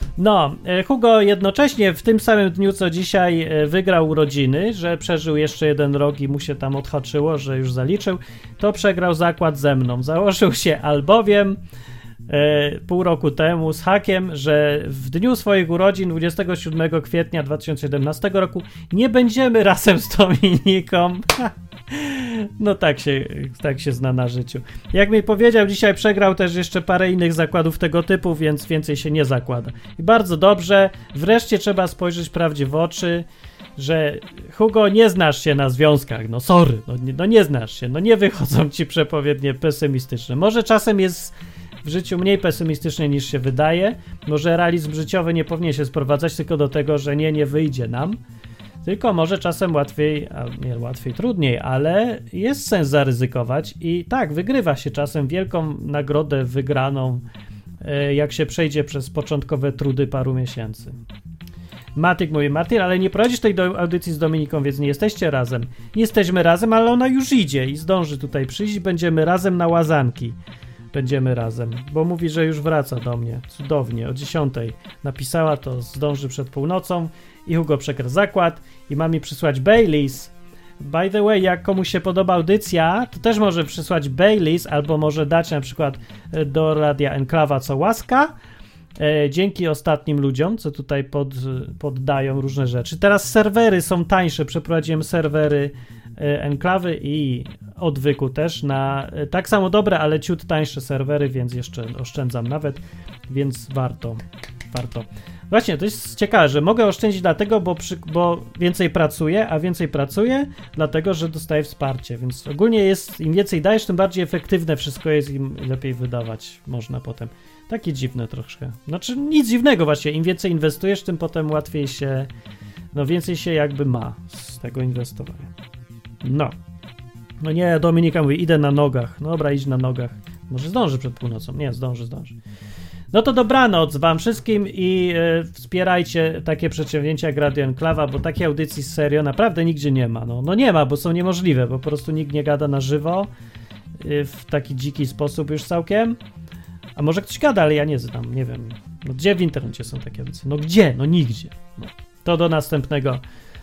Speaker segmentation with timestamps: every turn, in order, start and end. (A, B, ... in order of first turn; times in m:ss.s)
0:00.2-0:11.6 A
0:12.3-0:33.2 A
0:33.8-0:48.2 A
0:48.8-0:57.2 A
0:57.8-1:00.9 A
1:02.0-1:10.4 A
1:10.9-1:28.3 A
1:29.0-2:02.3 A
2:02.9-2:05.5 A
2:06.2-2:06.5 A
2:07.4-2:12.4 A
2:13.1-2:23.3 A
2:24.0-2:26.2 A
2:27.0-2:33.2 A